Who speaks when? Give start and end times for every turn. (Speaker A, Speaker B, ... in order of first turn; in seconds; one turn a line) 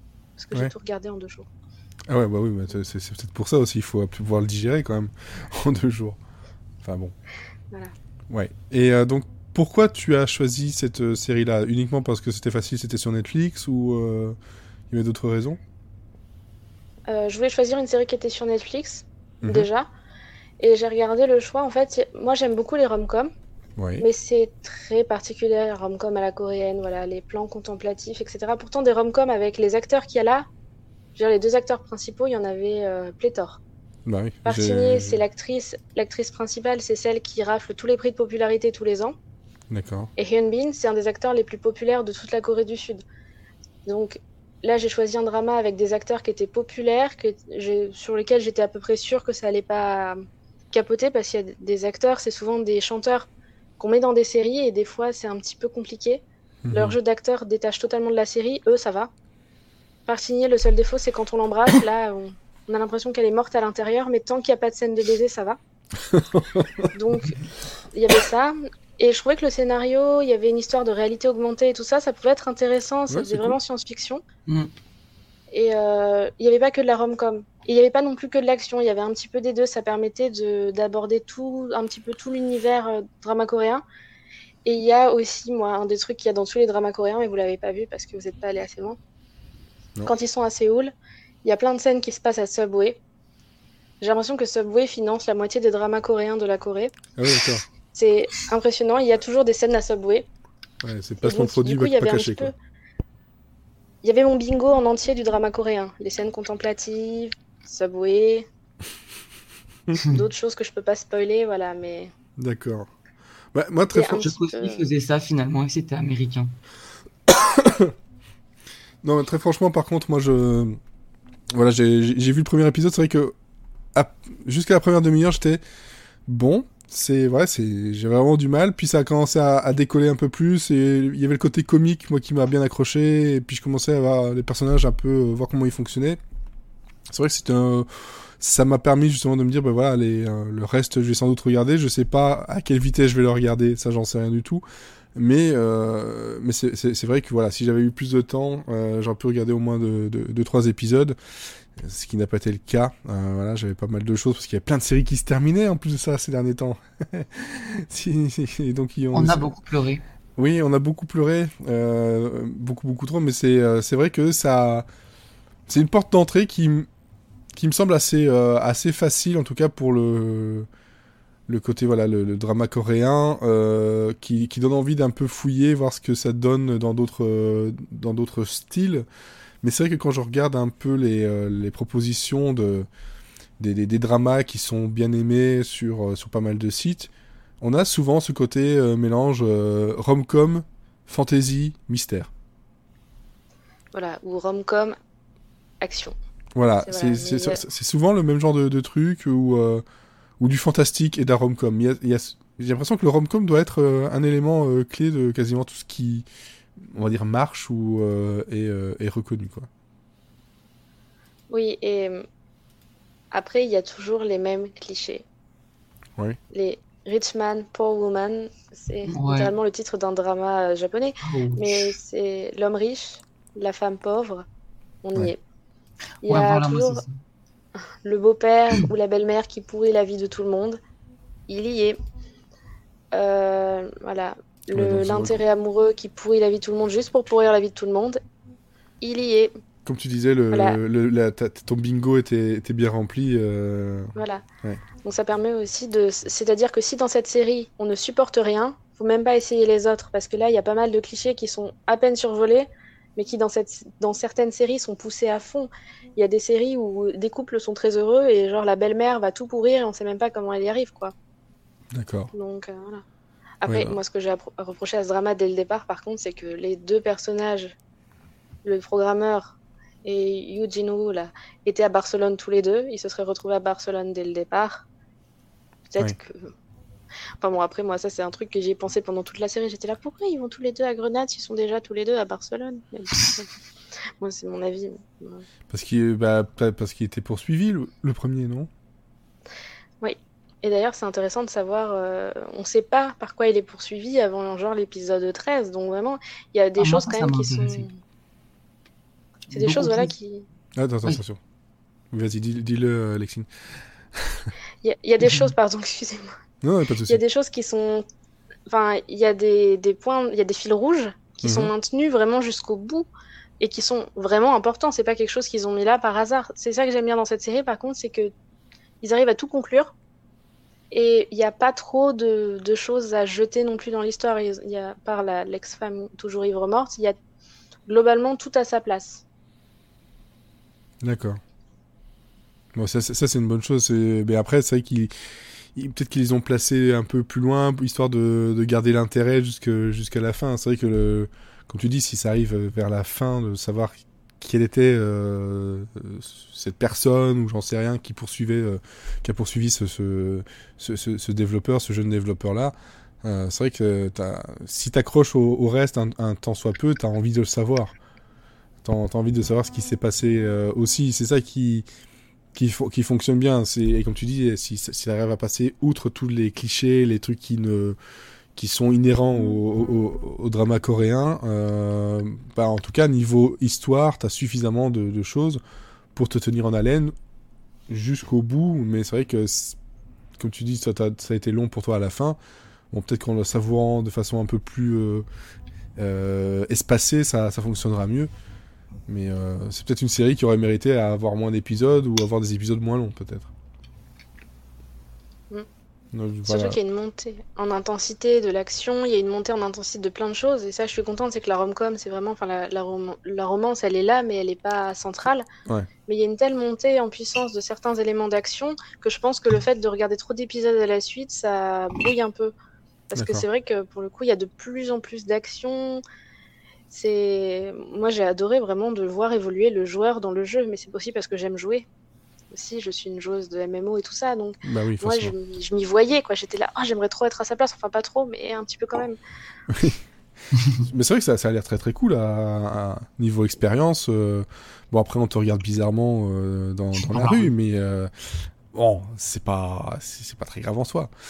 Speaker A: 0.4-1.5
Speaker B: 2.1-6.2
Speaker B: 6.8-7.1
Speaker B: 8.3-14.4
Speaker B: 14.9-15.6
Speaker A: 17.1-19.9
Speaker B: 19.4-19.7
Speaker A: 20.6-23.3
Speaker B: 23.8-24.1
Speaker A: 24.0-30.5
Speaker A: 31.1-33.6
Speaker B: 34.0-35.1
Speaker A: 34.5-39.1
Speaker B: 39.7-40.1
Speaker A: 40.2-43.0
Speaker A: 43.9-50.2
Speaker A: 50.7-53.3
Speaker A: 53.8-59.1
Speaker B: 56.6-57.0
Speaker A: 60.1-65.6
Speaker B: 66.1-66.9
Speaker A: 66.9-67.3
Speaker A: 67.9-74.2
Speaker B: 73.1-73.5
Speaker A: 75.5-83.8
Speaker A: 84.6-89.0
Speaker A: 90.0-93.0
Speaker A: 94.0-96.9
Speaker B: 97.2-97.6
Speaker A: 97.9-100.3
Speaker B: 100.8-102.5
Speaker A: 101.2-102.5
Speaker A: 104.0-108.5
Speaker A: 110.1-112.1
Speaker B: 112.4-112.9
Speaker B: 113.5-114.2
Speaker A: 113.9-114.8
Speaker C: 114.2-116.5
Speaker B: 117.3-117.9
Speaker B: 119.0-120.8
Speaker B: 121.5-123.3
Speaker B: 123.9-125.6
Speaker B: 126.3-136.2
Speaker B: 137.1-144.6
Speaker B: 145.1-151.2
Speaker B: 151.8-159.5
Speaker C: 159.1-160.0
Speaker B: 160.4-164.9
Speaker B: 165.7-166.9
Speaker B: 167.5-170.7
Speaker B: 171.5-179.0
Speaker B: 179.6-182.9
Speaker B: 183.6-187.1
Speaker B: 187.6-192.3
Speaker A: 193.9-194.9
Speaker A: 195.8-196.1
Speaker B: 196.6-199.8
Speaker A: 196.8-197.6
Speaker B: 200.4-206.2
Speaker B: 206.8-209.7
Speaker A: 211.5-212.2
Speaker A: 213.3-215.2
Speaker A: 216.5-224.4
Speaker C: 219.1-219.5
Speaker C: 221.2-221.9
Speaker A: 225.0-225.4
Speaker A: 226.2-227.0
Speaker C: 226.2-227.1
Speaker A: 228.0-230.8
Speaker A: 231.5-232.0
Speaker A: 233.1-238.2
Speaker B: 234.7-235.4
Speaker A: 239.0-239.5
Speaker B: 239.8-244.8
Speaker A: 240.5-240.8
Speaker A: 244.2-244.4
Speaker A: 245.0-261.1
Speaker B: 261.9-262.3
Speaker A: 262.3-263.0
Speaker A: 263.6-267.7
Speaker B: 263.7-264.0
Speaker A: 268.6-274.8
Speaker A: 275.9-276.5
Speaker A: 277.4-283.5
Speaker A: 284.2-285.4
Speaker B: 285.7-288.7
Speaker A: 290.0-298.0
Speaker C: 296.8-297.8
Speaker C: 299.5-300.1
Speaker A: 299.5-300.4
Speaker B: 300.8-301.4
Speaker B: 302.1-303.5
Speaker B: 304.1-304.5
Speaker A: 304.8-306.3
Speaker C: 305.2-305.5
Speaker B: 306.6-307.2
Speaker A: 307.1-308.0
Speaker A: 308.7-313.1
Speaker B: 311.4-311.7
Speaker A: 313.6-318.3
Speaker A: 319.0-319.9
Speaker A: 320.9-327.1
Speaker A: 327.9-329.2
Speaker B: 331.0-331.4
Speaker B: 332.7-335.1
Speaker B: 335.7-357.9
Speaker B: 358.8-361.9
Speaker B: 362.5-368.0
Speaker B: 368.6-375.6
Speaker B: 376.1-377.1
Speaker B: 377.9-379.8
Speaker B: 380.4-382.4
Speaker B: 382.9-385.2
Speaker B: 386.0-388.3
Speaker B: 389.1-393.5
Speaker B: 396.1-396.8
Speaker A: 396.5-405.4
Speaker A: 406.1-412.5
Speaker A: 413.1-416.0
Speaker B: 413.1-413.4
Speaker A: 416.9-421.9
Speaker A: 422.5-429.2
Speaker B: 424.6-425.3
Speaker B: 429.7-430.0
Speaker B: 430.8-441.1
Speaker C: 437.1-437.5